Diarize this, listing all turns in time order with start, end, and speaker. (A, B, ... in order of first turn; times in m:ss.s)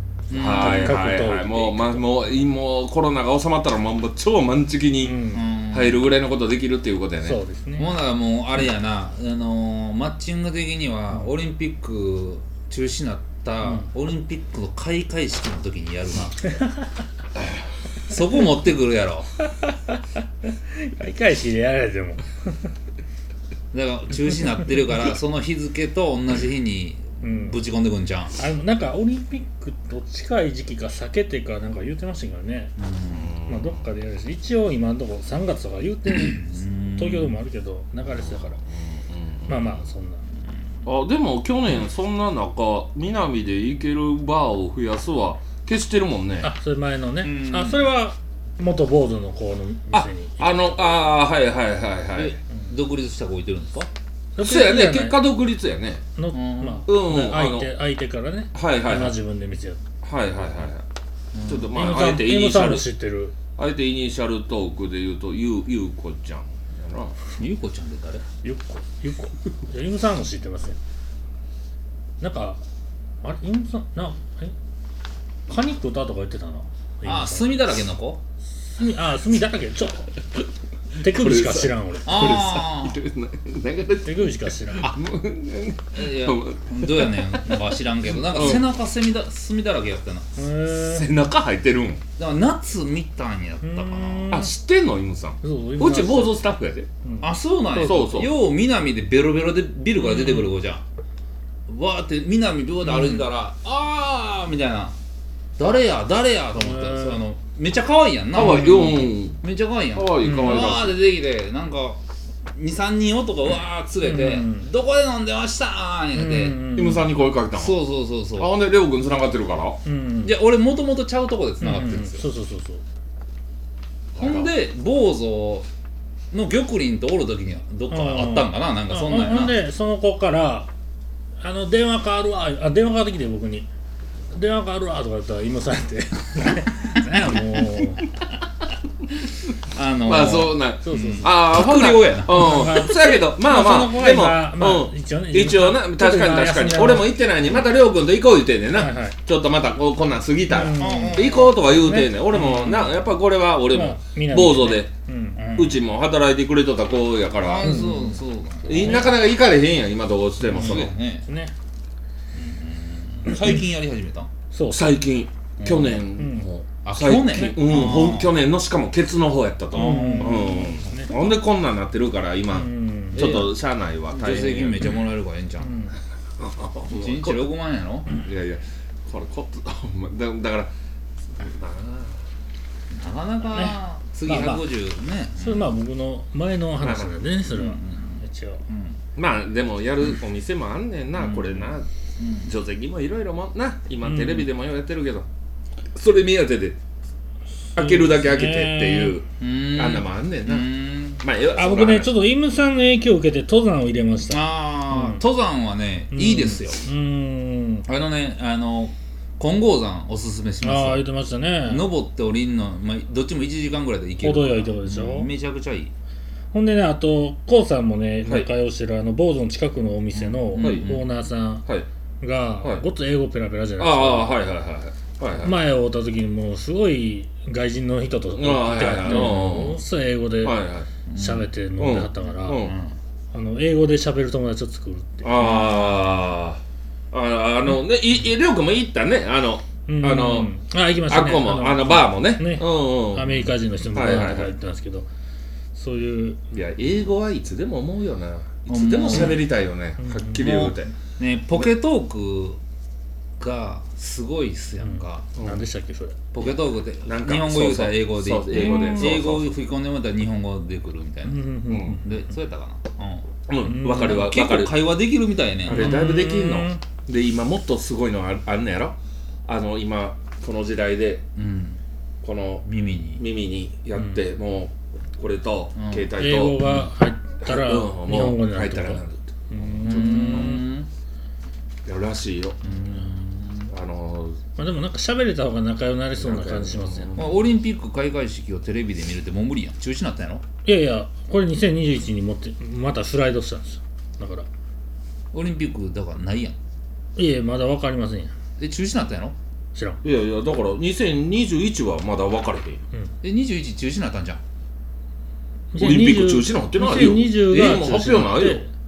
0:00.3-0:01.0 A
0:00.3-0:05.2 B
0:00.4-0:02.1 C
0:05.0-0:05.4 C
0:05.3-0:06.0 A
0:05.7-0:07.4 B
0:07.2-0:07.9 C
0:07.8-0:16.5 A
0:16.6-0:16.8 C
0:18.1-0:19.3 A
0:19.6-0:22.7 C
0:23.7-0:28.4 A
0:27.2-0:27.6 C
0:28.4-0:32.7 C
0:32.8-0:33.3 A
0:33.1-0:33.8 B
0:33.5-0:38.6 C
0:36.1-0:37.4 A
0:39.1-0:39.8 B
0:39.5-0:40.2 C
0:40.8-0:46.5 B
0:46.4-0:50.6 C
0:47.2-0:47.9 A
0:49.9-0:52.4 B
0:52.1-0:53.9 A
0:54.4-0:55.2 C
0:54.4-0:56.0 B
0:56.2-0:59.8 C
0:56.3-0:56.8 A
0:56.9-0:57.7 B
0:58.5-0:59.2 B
1:00.0-1:00.8 B
1:01.3-1:01.7 A
1:01.4-1:02.8 B
1:01.7-1:03.3 C
1:03.6-1:07.1 B
1:07.4-1:08.2 A
1:08.4-1:10.8 C
1:12.2-1:12.6 C
1:13.2-1:14.5 C
1:15.5-1:17.5 C
1:17.0-1:18.2 A
1:18.8-1:20.1 C
1:20.9-1:22.3 C
1:21.0-1:27.4 B
1:22.0-1:23.0 A
1:24.0-1:24.9 C
1:25.9-1:30.3 A
1:28.2-1:28.6 B
1:30.4-1:31.1 C
1:30.8-1:32.0 B
1:32.2-1:34.3 A
1:33.6-1:34.5 C
1:34.3-1:36.9 B
1:35.4-1:36.4 C
1:37.0-1:38.1 C
1:37.2-1:40.8 A
1:37.8-1:38.3 B
1:40.0-1:40.5 C
1:41.7-1:44.9 A
1:42.8-1:43.2 C
1:45.6-1:52.0 A
1:46.5-1:47.2 C
1:48.3-1:49.4 B
1:49.9-1:51.0 B
1:50.2-1:50.7 C
1:52.5-1:56.6 A
1:54.0-1:54.7 C
1:56.1-1:57.1 C
1:56.7-1:57.8 B
1:57.5-1:58.5 A
1:58.4-1:59.8 B
1:59.8-2:00.3 C
2:00.2-2:02.2 A
2:01.6-2:02.8 C
2:04.1-2:04.5 B
2:04.2-2:05.7 A
2:06.3-2:09.5 A
2:07.9-2:10.7 C
2:11.4-2:13.7 C
2:14.3-2:18.1 C
2:19.7-2:22.7 A
2:20.0-2:34.9 B
2:20.8-2:21.3 C
2:22.3-2:27.1 C
2:28.8-2:29.2 C
2:30.5-2:32.8 C
2:30.8-2:31.5 A
2:32.4-2:32.7 A
2:33.7-2:35.4 C
2:35.4-2:35.8 A
2:35.5-2:37.8 B
2:37.4-2:39.1 A
2:37.6-2:38.2 C
2:38.6-2:40.9 B
2:38.8-2:39.0 C
2:40.5-2:41.2 A
2:40.5-2:41.5 C
2:42.3-2:44.3 A
2:44.5-2:44.8 C
2:44.7-2:54.9 B
2:45.6-2:46.0 A
2:46.2-2:46.5 C
2:46.8-2:48.3 A
2:47.3-2:48.0 C
2:49.7-2:51.2 C
2:49.7-2:50.6 A
2:52.5-2:53.4 C
2:53.1-2:53.5 A
2:54.1-2:55.7 A
2:55.6-2:55.9 C
2:56.4-2:57.5 B
2:56.9-2:58.1 A
2:58.2-3:00.7 B
3:01.4-3:02.2 B
3:02.9-3:05.7 A
3:03.5-3:04.6 C
3:05.4-3:08.6 C
3:06.8-3:07.1 B
3:07.5-3:09.0 A
3:09.2-3:11.9 B
3:11.2-3:12.5 A
3:12.4-3:15.2 B
3:14.1-3:14.4 C
3:15.9-3:16.8 B
3:17.8-3:22.1 B
3:17.8-3:19.2 C
3:19.4-3:21.2 A
3:21.6-3:25.2 C
3:24.3-3:26.8 A
3:26.1-3:27.8 C
3:27.8-3:31.0 A
3:30.6-3:31.9 C
3:31.6-3:35.9 A
3:34.2-3:35.3 C
3:36.5-3:41.6 C
3:40.1-3:41.0 A
3:40.6-3:40.9 B
3:42.2-3:44.4 C
3:43.8-3:45.6 B
3:45.4-3:50.6 C
3:48.4-3:49.8 B
3:49.1-3:49.6 A
3:50.4-3:50.9 B
3:51.1-3:51.4 A
3:51.2-3:52.7 C
3:51.8-3:52.7 B
3:52.5-3:53.0 A
3:53.3-3:55.6 C
3:55.2-3:56.6 B
3:55.4-3:55.9 A
3:57.1-4:00.5 B
3:59.9-4:05.1 C
4:01.1-4:03.4 B
4:03.9-4:04.5 B
4:05.7-4:06.4 C
4:06.5-4:10.9 B
4:08.7-4:09.5 A
4:09.1-4:09.4 C
4:10.0-4:10.5 C
4:10.4-4:12.6 A
4:13.4-4:15.3 A
4:14.8-4:16.2 C
4:15.4-4:15.6 B
4:16.3-4:21.5 A
4:16.4-4:19.5 B
4:18.6-4:19.3 C
4:21.2-4:22.1 C
4:21.7-4:22.0 B
4:22.0-4:23.3 A
4:23.5-4:24.8 B
4:23.6-4:24.2 C
4:23.8-4:26.0 A
4:25.7-4:28.9 B
4:25.7-4:26.8 C
4:29.5-4:31.2 B
4:31.4-4:31.8 A
4:32.2-4:32.6 B
4:32.6-4:33.2 A
4:33.2-4:36.6 B
4:35.8-4:36.1 A
4:36.2-4:40.6 C
4:37.4-4:40.6 B
4:39.8-4:40.9 A
4:41.8-4:42.6 B
4:42.6-4:43.7 A
4:43.7-4:44.4 B
4:44.6-4:47.1 C
4:46.2-4:47.5 B
4:47.2-4:50.4 A
4:50.6-4:54.5 C
4:55.3-4:56.6 A
4:57.2-4:58.3 C
4:58.6-4:59.4 A
4:59.7-5:00.0 C
5:00.0-5:02.8 B
5:03.2-5:04.4 A
5:05.7-5:08.7 C
5:05.8-5:08.6 B
5:07.5-5:08.0 A